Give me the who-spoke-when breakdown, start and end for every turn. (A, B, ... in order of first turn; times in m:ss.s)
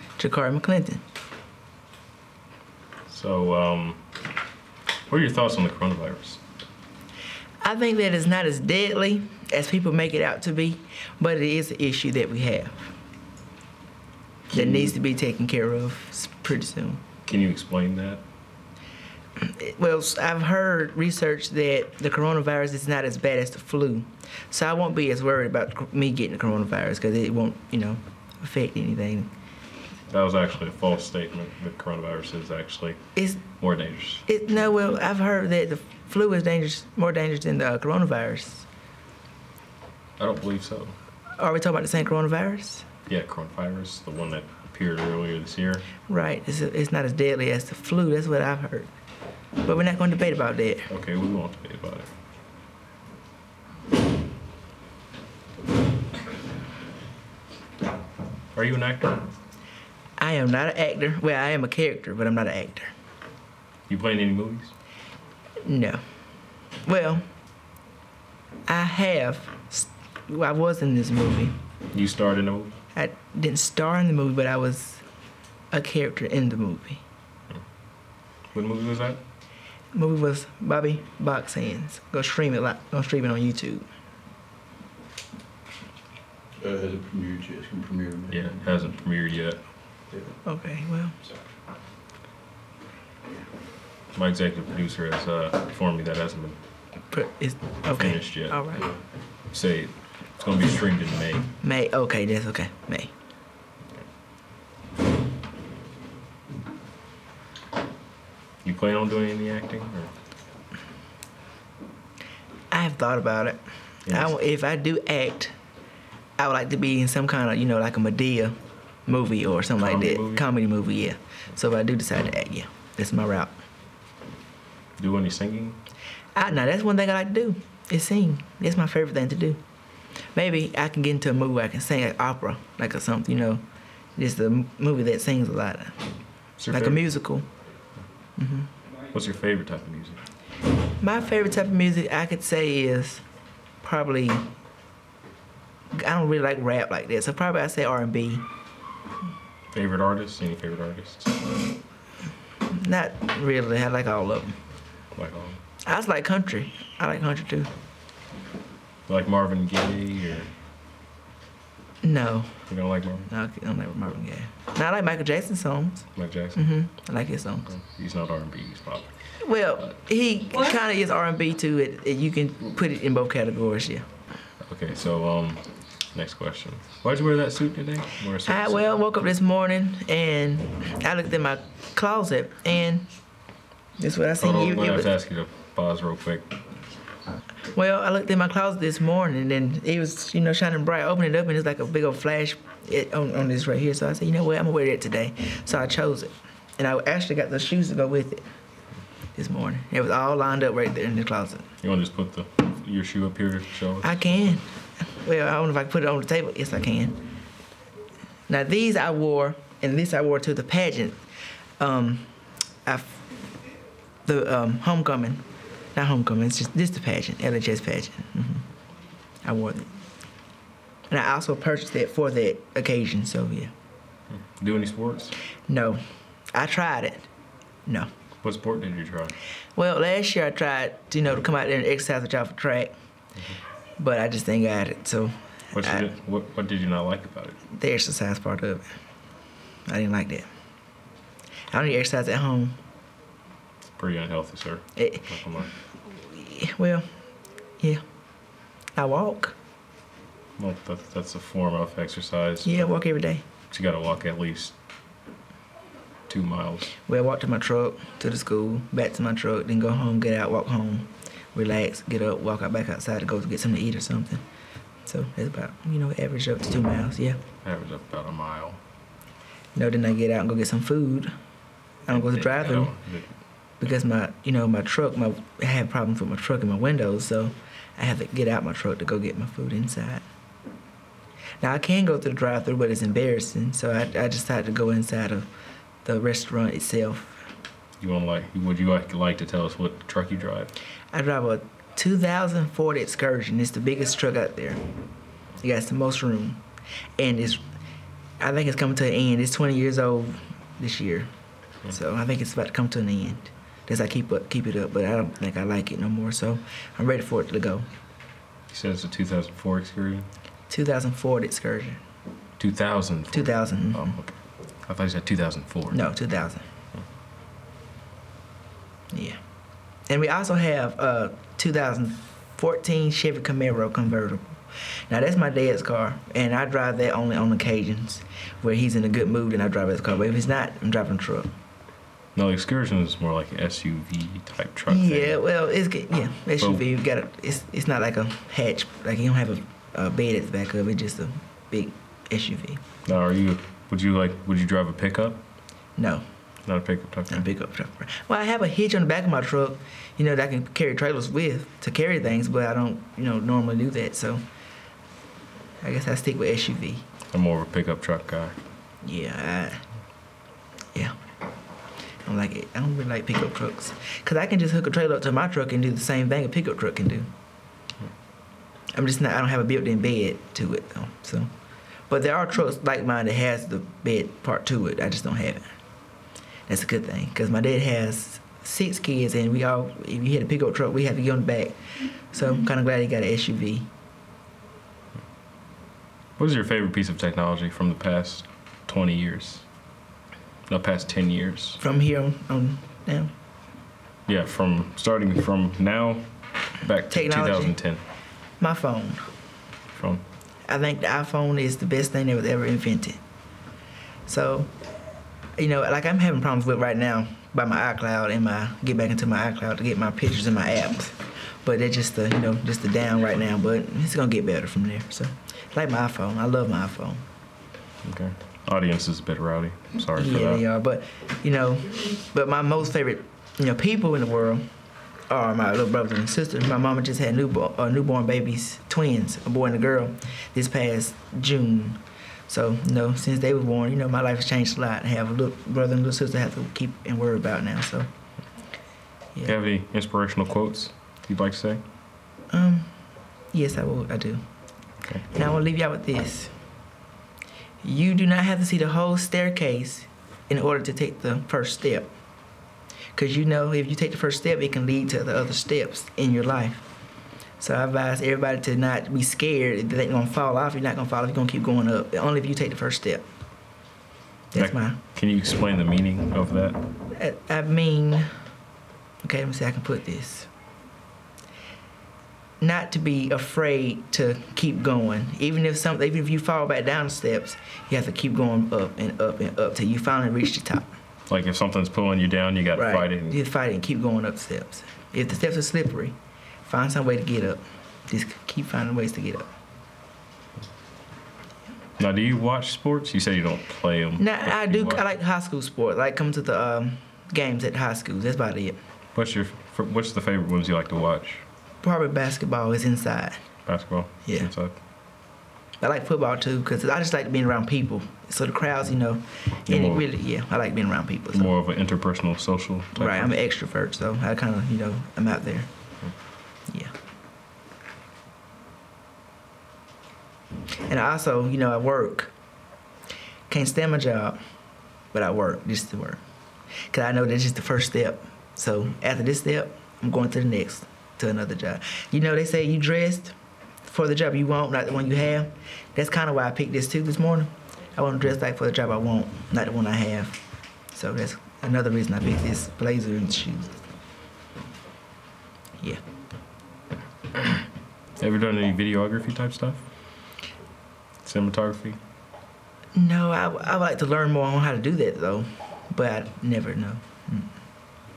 0:00.2-0:01.0 A
0:03.1-0:04.0 B
0:05.1-0:06.4 B
0:07.6-0:13.0 A
0:14.5-0:17.0 A
0:17.2-0:18.2 B
0:19.4-0:29.3 A
0:30.1-0:33.0 B
0:33.2-0:33.5 A
0:33.6-0:34.2 B
0:34.3-0:38.7 A
0:40.2-0:41.0 B
0:41.4-0:42.9 A
0:43.1-0:45.9 B
0:46.0-0:48.9 A
0:49.6-0:50.9 A
0:50.9-0:52.1 B
0:58.5-0:59.2 B
1:00.2-1:02.9 A
1:03.9-1:04.7 B
1:05.6-1:06.0 A
1:06.8-1:07.3 A
1:08.7-1:11.6 A
1:11.9-1:12.7 B
1:12.9-1:15.0 A
1:15.7-1:17.0 A
1:18.5-1:19.2 B
1:19.9-1:23.9 A
1:26.6-1:28.8 C
1:28.3-1:29.6 B
1:30.4-1:31.2 A
1:34.1-1:36.6 B
1:37.1-1:38.9 A
1:37.9-1:38.7 B
1:39.5-1:41.5 B
1:41.6-1:43.1 A
1:48.6-1:50.1 B
1:52.7-1:55.5 A
1:54.1-1:54.3 B
1:56.4-1:58.6 A
1:59.1-2:03.6 A
1:59.8-2:00.4 B
2:05.0-2:05.8 B
2:06.3-2:09.6 A
2:10.3-2:13.6 A
2:14.2-2:16.1 A
2:16.6-2:17.1 B
2:16.7-2:17.5 A
2:18.4-2:18.7 A
2:19.1-2:20.2 B
2:21.0-2:23.2 A
2:23.8-2:24.5 A
2:25.9-2:28.4 A
2:29.7-2:31.3 B
2:32.7-2:34.6 A
2:35.1-2:35.6 B
2:35.8-2:37.7 A
2:39.1-2:40.5 B
2:42.0-2:42.7 A
2:42.7-2:43.3 B
2:43.3-2:47.7 A
2:46.2-2:46.7 B
2:47.7-2:49.1 B
2:49.4-2:54.0 A
2:54.6-2:58.8 B
2:58.4-3:03.1 A
3:04.0-3:05.2 A
3:04.4-3:06.5 B
3:07.7-3:18.4 A
3:19.3-3:21.7 A
3:21.8-3:24.6 B
3:24.0-3:27.3 A
3:28.5-3:31.2 A
3:31.8-3:32.3 A
3:32.8-3:33.2 A
3:34.2-3:38.7 A
3:39.4-3:39.9 A
3:41.1-3:43.7 A
3:44.3-3:45.4 B
3:45.7-3:46.0 A
3:46.5-3:47.3 A
3:48.4-3:49.4 B
3:49.8-3:52.9 A
3:54.0-3:56.1 A
3:55.7-3:57.6 B
3:57.6-3:58.9 A
3:59.9-4:00.5 A
4:01.7-4:02.8 A
4:03.8-4:05.7 B
4:05.0-4:07.1 A
4:09.0-4:09.6 A
4:10.6-4:12.8 B
4:12.6-4:13.5 A
4:13.7-4:14.7 B
4:16.3-4:16.9 B
4:16.9-4:24.4 A
4:25.1-4:27.4 A
4:27.6-4:28.8 B
4:29.8-4:31.3 A
4:32.1-4:33.0 A
4:32.1-4:33.3 B
4:33.8-4:40.2 A
4:41.6-4:45.5 A
4:46.0-4:47.5 A
4:48.0-4:50.7 B
4:51.1-4:54.8 A
4:55.6-4:56.6 A
4:57.2-4:57.6 A
4:58.4-5:01.3 A
5:01.9-5:07.9 A
5:08.7-5:10.3 B
5:10.7-5:12.0 A
5:12.6-5:14.3 B
5:13.3-5:14.2 A
5:14.8-5:16.0 B
5:15.9-5:16.6 A
5:19.1-5:19.4 A
5:20.1-5:24.6 A
5:25.1-5:31.5 A
5:32.3-5:35.4 B
5:34.9-5:42.8 A
5:43.0-5:45.4 B
5:46.0-5:46.2 A
5:46.6-5:47.4 B
5:47.3-5:54.4 A
5:55.8-5:57.1 A
5:57.3-5:58.6 B
5:59.0-5:59.8 A
6:02.2-6:07.3 A
6:08.9-6:11.5 A
6:12.1-6:15.8 A
6:16.7-6:21.8 A
6:22.3-6:23.9 A
6:26.4-6:29.6 B
6:30.7-6:31.8 B
6:31.8-6:33.3 A
6:34.3-6:36.2 B
6:36.8-6:38.0 B
6:37.1-6:37.8 A
6:38.6-6:39.3 A
6:39.9-6:40.2 B
6:40.7-6:43.2 A
6:44.3-6:44.7 A
6:45.6-6:57.2 A
6:58.0-7:00.6 B
7:00.1-7:04.6 A
7:05.3-7:18.1 A
7:19.4-7:21.8 B
7:22.5-7:22.9 A
7:23.5-7:24.4 A
7:25.2-7:26.5 A
7:27.8-7:32.1 A
7:33.1-7:36.8 A
7:37.6-7:43.2 A
7:44.5-7:45.0 A
7:44.5-7:46.8 B
7:47.1-7:48.3 A
7:49.2-7:50.5 A
7:52.6-8:00.9 A
8:01.3-8:03.4 B
8:02.8-8:09.5 A
8:12.0-8:15.1 B
8:14.2-8:18.8 A
8:19.1-8:21.4 B
8:21.8-8:23.4 A
8:23.6-8:24.8 B
8:24.2-8:24.5 A
8:25.8-8:31.5 A
8:29.7-8:30.0 B
8:31.3-8:33.3 B
8:32.9-8:35.7 A
8:36.7-8:36.9 A
8:40.9-8:42.3 A
8:43.5-8:44.4 A
8:45.1-8:46.2 A
8:46.9-9:00.4 A
9:00.9-9:03.8 A
9:08.2-9:09.8 B
9:11.2-9:12.0 B
9:12.9-9:17.5 A